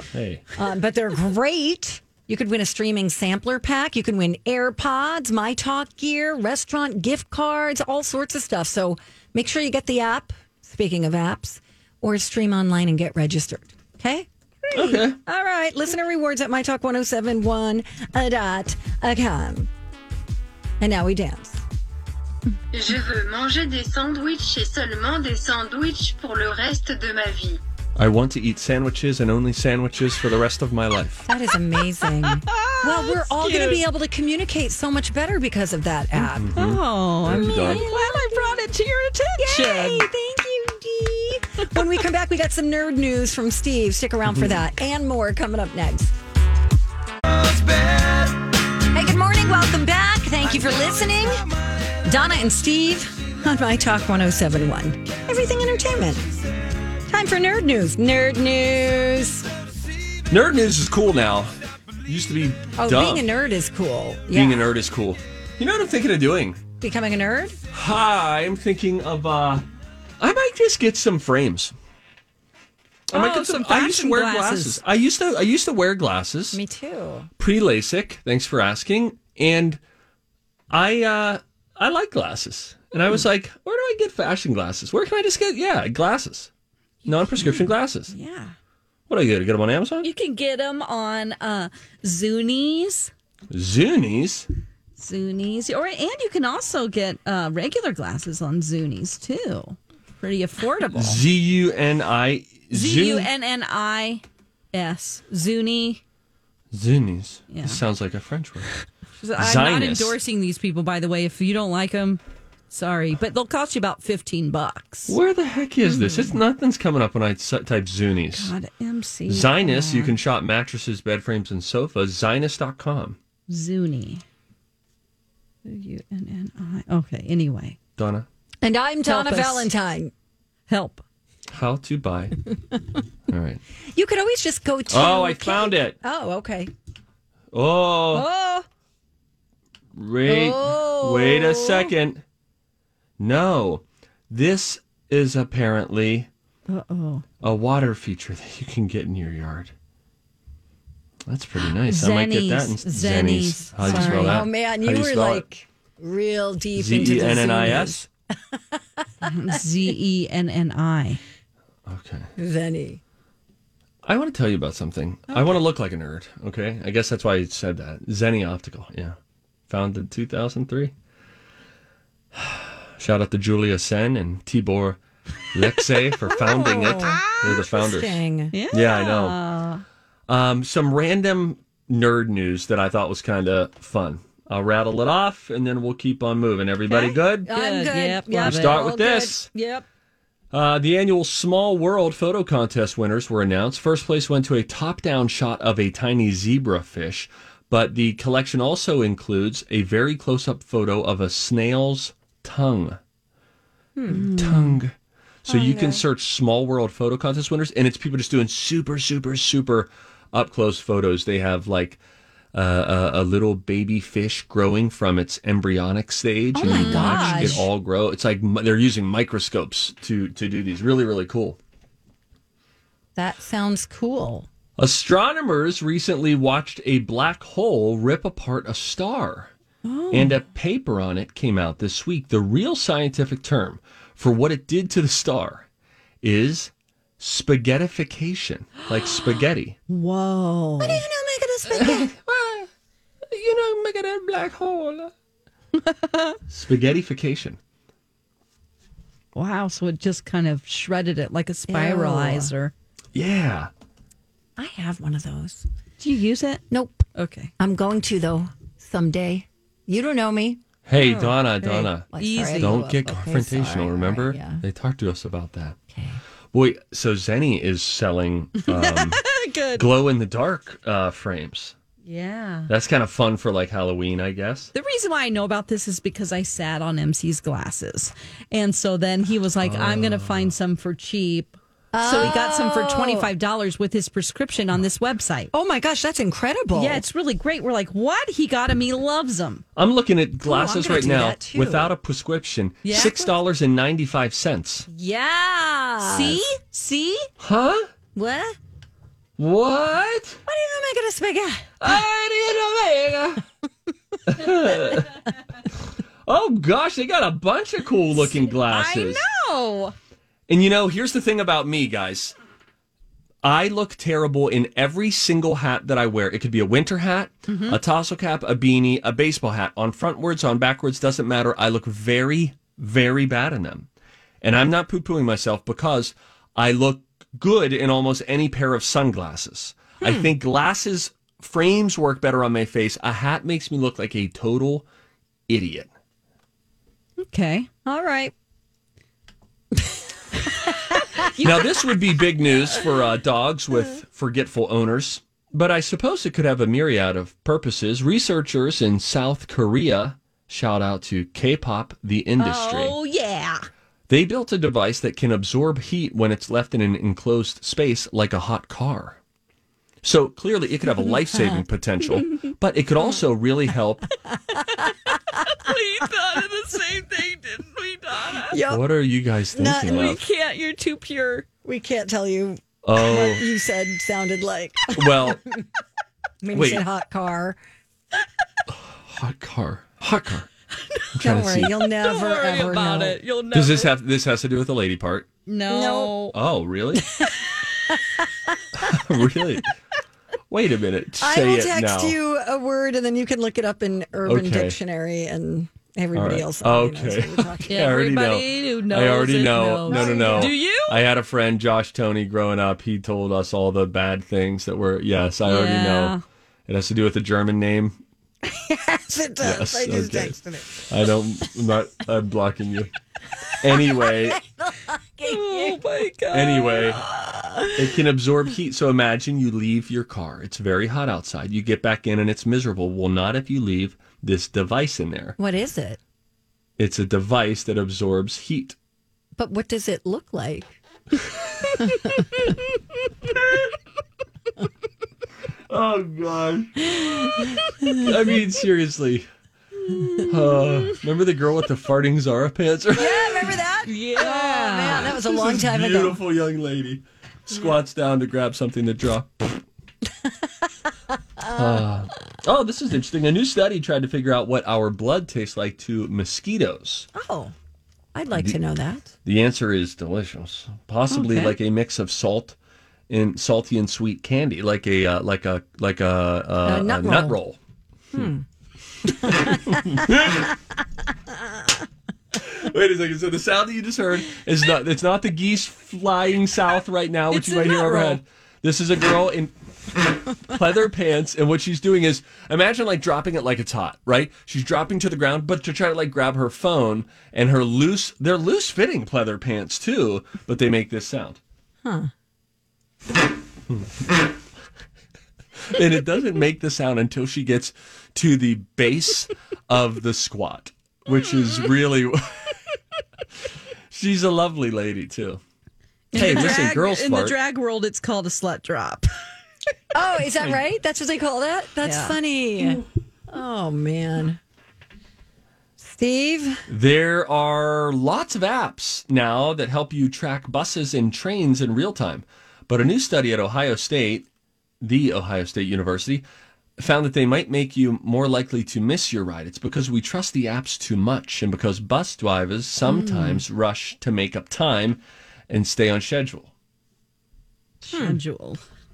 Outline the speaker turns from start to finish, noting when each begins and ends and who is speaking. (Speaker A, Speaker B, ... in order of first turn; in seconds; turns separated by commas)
Speaker A: 0.1-0.4, Speaker B: 0.6-19.7, Speaker A: 14.7-15.2, Speaker B: 20.8-21.6, Speaker C: 22.7-27.6, Speaker A: 28.0-31.3, Speaker B: 31.2-36.5, Speaker D: 32.2-33.9, Speaker A: 36.2-37.9, Speaker D: 36.5-40.1, Speaker B: 37.3-38.6, Speaker B: 39.4-46.2, Speaker A: 44.3-44.6, Speaker B: 48.9-51.4, Speaker B: 52.0-56.4, Speaker B: 57.1-59.5, Speaker A: 60.3-61.5, Speaker A: 62.1-63.3, Speaker B: 62.8-64.7, Speaker A: 64.3-66.6, Speaker B: 66.8-67.6, Speaker A: 67.7-69.6, Speaker A: 70.2-71.7, Speaker A: 73.1-76.6, Speaker D: 73.1-74.8, Speaker B: 76.5-77.3, Speaker A: 77.4-79.8, Speaker A: 80.7-86.5, Speaker A: 87.0-88.1, Speaker D: 87.4-88.5, Speaker A: 89.1-90.1, Speaker D: 90.0-93.1, Speaker A: 93.5-94.5, Speaker D: 95.0-101.2, Speaker A: 100.9-103.3, Speaker D: 102.7-106.0, Speaker A: 106.7-108.7, Speaker D: 107.5-107.8, Speaker D: 109.2-115.2, Speaker A: 109.4-110.2, Speaker A: 115.1-118.5, Speaker D: 115.8-116.4, Speaker D: 118.3-120.2, Speaker A: 119.3-123.2, Speaker D: 123.5-124.2, Speaker D: 125.7-127.8, Speaker A: 128.0-128.3, Speaker B: 128.6-130.1, Speaker D: 129.1-129.7, Speaker D: 130.7-131.0, Speaker A: 131.5-132.4, Speaker A: 133.3-133.6, Speaker B: 133.9-136.7, Speaker A: 134.9-136.0, Speaker A: 137.5-138.3, Speaker B: 138.1-138.7, Speaker A: 140.0-142.2, Speaker B: 140.3-141.9, Speaker A: 143.2-146.3, Speaker D: 146.7-147.2, Speaker A: 147.4-149.7, Speaker A: 151.3-155.4, Speaker D: 151.8-154.4, Speaker B: 153.8-158.1, Speaker A: 156.8-158.1, Speaker B: 158.8-159.6, Speaker D: 159.2-161.2, Speaker A: 161.9-162.3, Speaker B: 162.4-163.0, Speaker A: 164.1-169.2, Speaker A: 169.7-170.9, Speaker A: 172.3-175.0, Speaker A: 175.5-178.2, Speaker B: 176.3-178.5, Speaker D: 176.7-177.3, Speaker D: 178.5-179.8, Speaker A: 178.7-179.4, Speaker A: 180.3-187.5, Speaker B: 186.9-189.8, Speaker D: 187.5-188.8, Speaker A: 188.4-189.5, Speaker A: 190.5-203.0, Speaker B: 204.0-204.3, Speaker D: 204.1-204.8, Speaker A: 204.4-204.9, Speaker B: 205.5-206.0, Speaker A: 205.5-212.0, Speaker A: 212.5-221.6, Speaker B: 216.6-217.7, Speaker D: 216.6-217.6, Speaker B: 223.2-224.5, Speaker A: 224.8-229.5, Speaker D: 229.8-230.4, Speaker A: 230.1-235.7, Speaker A: 236.2-239.8, Speaker D: 239.9-241.0, Speaker B: 240.8-242.1, Speaker A: 241.7-242.7, Speaker A: 243.3-245.1, Speaker D: 245.9-246.4, Speaker A: 246.5-247.6, Speaker D: 249.3-252.7, Speaker B: 251.7-252.5, Speaker A: 253.2-253.7, Speaker B: 254.6-255.7, Speaker D: 256.0-256.6, Speaker B: 256.7-257.0, Speaker D: 257.1-257.5, Speaker B: 257.6-260.6, Speaker A: 260.9-262.1, Speaker D: 261.0-261.3, Speaker B: 261.6-264.6, Speaker D: 262.1-262.8, Speaker A: 262.6-265.8, Speaker B: 265.9-266.2, Speaker A: 266.5-269.2, Speaker D: 268.6-269.9, Speaker A: 269.8-271.8, Speaker D: 272.1-272.7, Speaker A: 272.7-274.7, Speaker D: 274.7-285.5, Speaker A: 279.6-280.5, Speaker B: 281.9-283.3, Speaker B: 285.5-287.0, Speaker D: 286.7-289.6, Speaker A: 289.8-294.9, Speaker B: 290.4-291.9, Speaker D: 292.8-293.3, Speaker B: 294.9-296.4, Speaker D: 296.0-297.3, Speaker A: 297.4-297.9, Speaker B: 298.1-298.6, Speaker A: 299.4-300.4, Speaker B: 300.5-301.9, Speaker A: 301.8-303.4, Speaker A: 304.3-305.2, Speaker A: 306.3-309.2, Speaker D: 308.4-309.9, Speaker A: 310.5-312.4, Speaker A: 313.4-323.9, Speaker D: 317.5-317.8, Speaker A: 324.4-334.9, Speaker B: 330.0-330.3, Speaker A: 335.5-335.9, Speaker D: 337.2-337.7, Speaker B: 337.9-338.3, Speaker B: 339.8-341.2, Speaker D: 341.4-341.6, Speaker A: 341.4-353.0, Speaker D: 352.4-353.7, Speaker A: 354.1-359.2, Speaker A: 360.0-364.1, Speaker D: 364.6-368.6, Speaker B: 368.5-368.8, Speaker A: 368.7-370.2, Speaker B: 369.6-370.0, Speaker D: 369.8-371.5, Speaker B: 371.6-375.4, Speaker A: 372.8-373.5, Speaker A: 374.9-375.4, Speaker B: 376.4-377.6, Speaker A: 376.5-376.8, Speaker A: 378.7-380.5, Speaker A: 381.1-381.7, Speaker B: 381.2-383.2, Speaker D: 382.0-383.9, Speaker A: 383.5-385.3, Speaker D: 385.5-386.4, Speaker B: 385.7-386.2, Speaker A: 386.3-387.1, Speaker B: 386.9-388.2, Speaker A: 388.7-389.7, Speaker A: 390.5-392.2, Speaker B: 391.2-397.9, Speaker A: 394.3-394.8, Speaker A: 396.1-406.1, Speaker D: 397.7-401.0, Speaker B: 399.9-400.6, Speaker D: 405.5-406.2, Speaker A: 406.7-408.0, Speaker B: 408.5-410.7, Speaker A: 409.4-412.9, Speaker A: 413.6-414.4, Speaker B: 413.8-415.8, Speaker D: 415.2-417.7, Speaker A: 416.3-417.0, Speaker A: 417.8-425.4, Speaker B: 425.4-426.0, Speaker A: 426.8-428.8, Speaker B: 429.4-430.8, Speaker A: 435.7-439.3, Speaker D: 439.8-440.7, Speaker A: 440.2-443.6, Speaker B: 442.9-446.2, Speaker D: 443.9-445.3, Speaker A: 445.2-449.6, Speaker B: 451.4-451.8, Speaker A: 451.6-457.1, Speaker B: 457.1-457.5, Speaker B: 458.1-459.1, Speaker A: 458.3-458.6, Speaker A: 459.2-462.6, Speaker D: 461.1-461.5, Speaker A: 463.1-467.6, Speaker B: 466.6-467.4, Speaker B: 468.1-468.4, Speaker B: 469.1-470.4, Speaker A: 469.3-470.5, Speaker B: 471.3-471.7, Speaker A: 472.4-479.5, Speaker D: 477.3-478.2, Speaker A: 480.4-491.4, Speaker B: 491.8-492.1, Speaker A: 495.7-502.3, Speaker A: 503.9-505.4, Speaker D: 506.1-509.1, Speaker A: 506.1-507.4, Speaker B: 509.9-514.4, Speaker D: 511.8-512.2, Speaker B: 515.8-516.6, Speaker A: 516.7-524.3, Speaker A: 524.8-526.2, Speaker A: 526.8-536.5, Speaker D: 532.8-533.4, Speaker D: 537.8-538.6, Speaker B: 537.9-538.2